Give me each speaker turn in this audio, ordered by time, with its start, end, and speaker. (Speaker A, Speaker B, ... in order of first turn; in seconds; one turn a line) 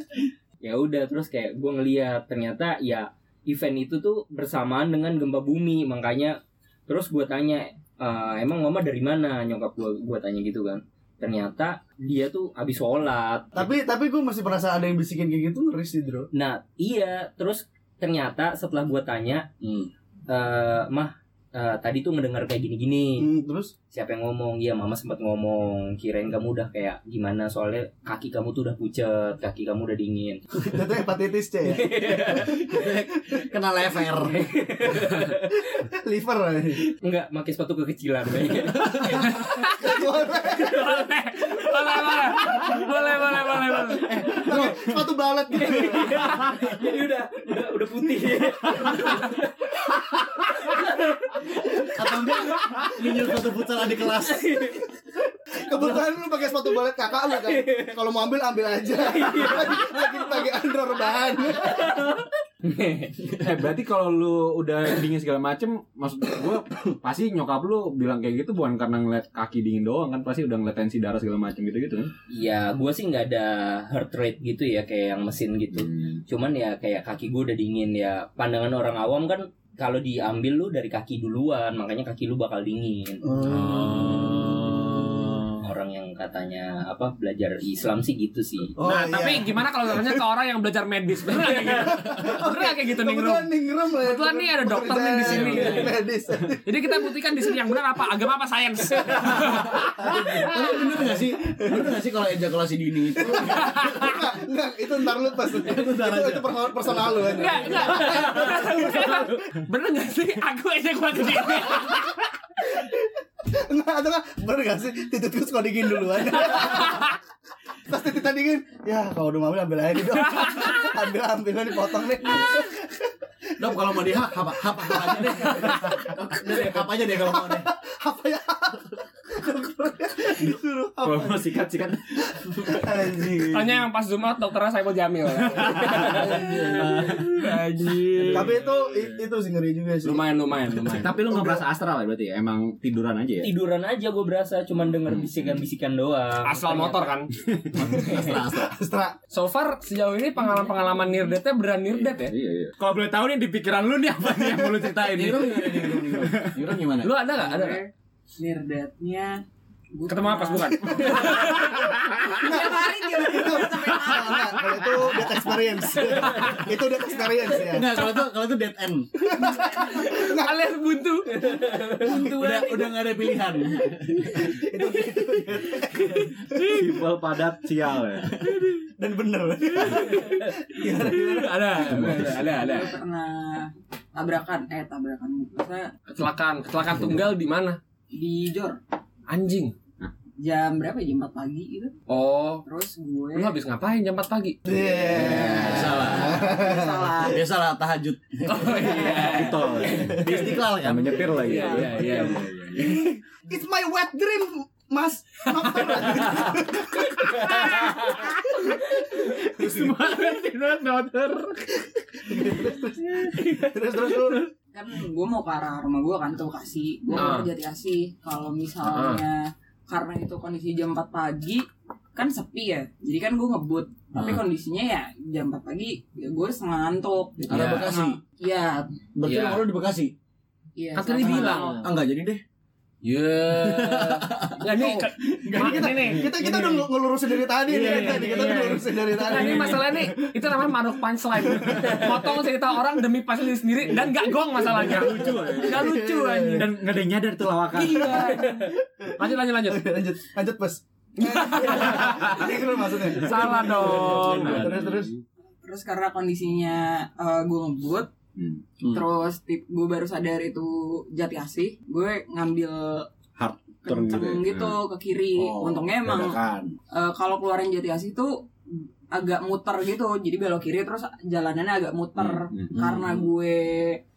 Speaker A: 0.6-13.7
Speaker B: 13.5-16.3
Speaker A: 16.3-19.5
Speaker C: 19.6-19.9
Speaker A: 20.3-23.3
Speaker B: 23.2-23.7
Speaker A: 23.9-30.4
Speaker B: 30.6-32.9
Speaker A: 31.6-32.6
Speaker C: 32.3-34.4
Speaker A: 34.3-35.5
Speaker B: 35.6-36.9
Speaker A: 37.0-39.4
Speaker D: 39.2-40.0
Speaker B: 39.8-41.0
Speaker D: 40.5-44.1
Speaker B: 44.1-46.5
Speaker A: 44.2-44.6
Speaker A: 45.5-49.7
Speaker A: 50.6-52.3
Speaker C: 51.9-54.6
Speaker A: 54.2-54.8
Speaker B: 55.5-62.2
Speaker A: 57.4-57.9
Speaker A: 59.0-60.4
Speaker A: 61.6-62.1
Speaker A: 62.6-63.3
Speaker E: 63.3-72.1
Speaker A: 72.3-83.2
Speaker E: 75.8-76.2
Speaker B: 83.2-84.1
Speaker E: 83.5-85.3
Speaker A: 85.6-88.7
Speaker B: 88.8-90.2
Speaker D: 88.8-93.5
Speaker B: 91.4-97.0
Speaker D: 94.0-96.0
Speaker D: 96.6-100.7
Speaker B: 99.1-101.9
Speaker C: 100.0-103.8
Speaker B: 103.2-109.3
Speaker D: 103.5-104.2
Speaker C: 105.4-107.2
Speaker D: 107.3-112.1
Speaker B: 112.7-117.2
Speaker D: 116.4-117.1
Speaker B: 117.9-123.1
Speaker D: 120.4-120.9
Speaker C: 123.6-127.7
Speaker B: 123.6-123.9
Speaker B: 124.8-131.6
Speaker E: 131.0-132.8
Speaker B: 132.4-133.8
Speaker D: 133.5-138.7
Speaker E: 135.5-137.4
Speaker B: 136.1-137.0
Speaker B: 138.3-140.2
Speaker D: 140.0-141.2
Speaker E: 140.9-143.5
Speaker B: 141.2-141.6
Speaker A: 143.4-147.1
Speaker D: 146.4-147.3
Speaker C: 147.7-148.8
Speaker B: 148.0-149.2
Speaker D: 149.3-152.3
Speaker E: 152.0-156.8
Speaker C: 154.9-157.1
Speaker D: 157.0-157.8
Speaker F: 157.3-164.7
Speaker D: 160.1-162.0
Speaker B: 161.0-161.6
Speaker B: 162.4-168.0
Speaker D: 166.0-166.6
Speaker C: 167.6-169.1
Speaker B: 169.2-170.6
Speaker D: 169.7-171.4
Speaker F: 172.0-173.0
Speaker C: 172.0-174.4
Speaker B: 174.3-176.8
Speaker E: 176.5-178.3
Speaker B: 179.0-181.6
Speaker D: 179.8-182.9
Speaker F: 182.4-185.9
Speaker D: 186.1-187.8
Speaker F: 188.1-188.8
Speaker D: 189.3-189.7
Speaker F: 190.4-191.9
Speaker D: 192.1-192.6
Speaker F: 192.6-193.6
Speaker D: 193.3-194.6
Speaker B: 194.6-197.1
Speaker C: 195.1-196.5
Speaker E: 195.2-196.0
Speaker F: 196.2-197.4
Speaker C: 197.2-199.3
Speaker D: 198.4-199.8
Speaker F: 198.8-199.3
Speaker E: 199.0-202.6
Speaker F: 199.8-200.2
Speaker C: 199.9-202.2
Speaker D: 201.4-203.2
Speaker F: 201.6-202.3
Speaker B: 202.9-208.8
Speaker D: 205.7-206.5
Speaker D: 207.5-208.2
Speaker E: 207.6-208.0
Speaker E: 209.1-211.6
Speaker B: 209.6-209.9
Speaker B: 212.2-214.5
Speaker F: 214.7-228.9
Speaker D: 217.1-217.5
Speaker D: 218.9-219.2
Speaker C: 227.5-228.2
Speaker D: 227.5-227.9
Speaker C: 229.1-230.1
Speaker D: 229.2-229.6
Speaker F: 230.8-231.8
Speaker D: 230.9-231.8
Speaker C: 231.2-232.4
Speaker D: 233.0-236.5
Speaker C: 233.5-236.1
Speaker B: 235.5-240.7
Speaker E: 237.7-239.8
Speaker D: 237.7-246.7
Speaker B: 241.4-242.3
Speaker B: 244.6-246.7
Speaker E: 244.7-245.9
Speaker E: 246.5-248.2
Speaker D: 247.7-249.8
Speaker B: 247.9-255.1
Speaker D: 251.2-252.5
Speaker E: 252.0-252.5
Speaker D: 253.1-254.7
Speaker E: 253.8-255.2
Speaker F: 255.6-258.1
Speaker E: 258.4-258.6
Speaker C: 258.8-259.1
Speaker F: 258.9-263.1
Speaker E: 263.4-264.8
Speaker F: 263.8-266.4
Speaker C: 265.3-266.7
Speaker E: 266.1-266.5
Speaker F: 266.9-274.0
Speaker E: 272.2-272.7
Speaker C: 272.7-273.3